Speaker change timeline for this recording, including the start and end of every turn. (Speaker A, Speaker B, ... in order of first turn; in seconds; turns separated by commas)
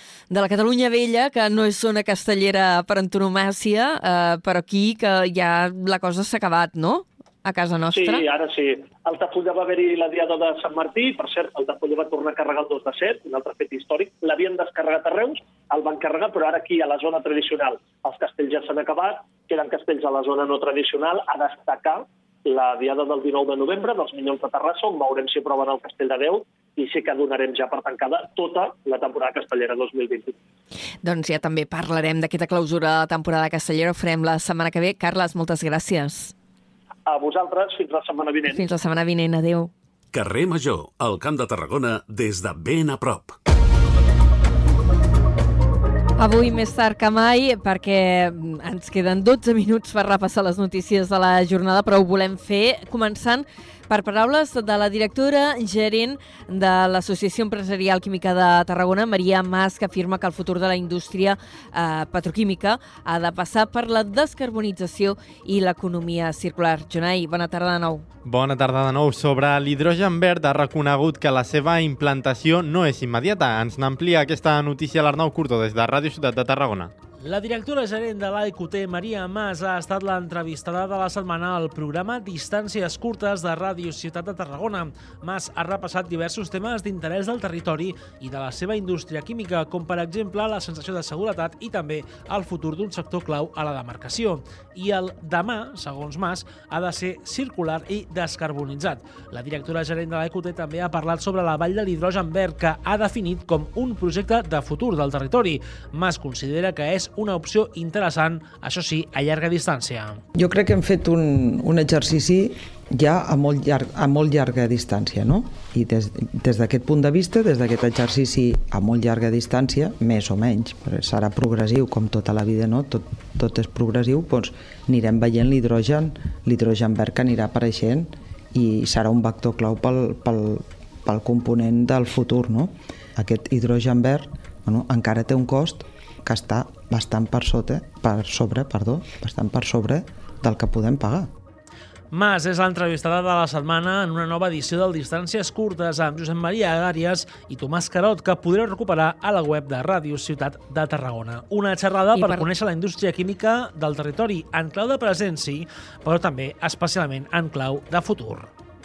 Speaker A: 0.3-8.2, Speaker B: 7.9-30.4, Speaker A: 31.0-36.3, Speaker B: 37.1-38.6, Speaker A: 38.5-39.7, Speaker C: 40.1-43.3, Speaker A: 46.2-68.0, Speaker D: 68.2-76.9, Speaker E: 77.2-110.2, Speaker F: 110.3-141.3, Speaker E: 142.1-158.5, Speaker A: 152.1-152.5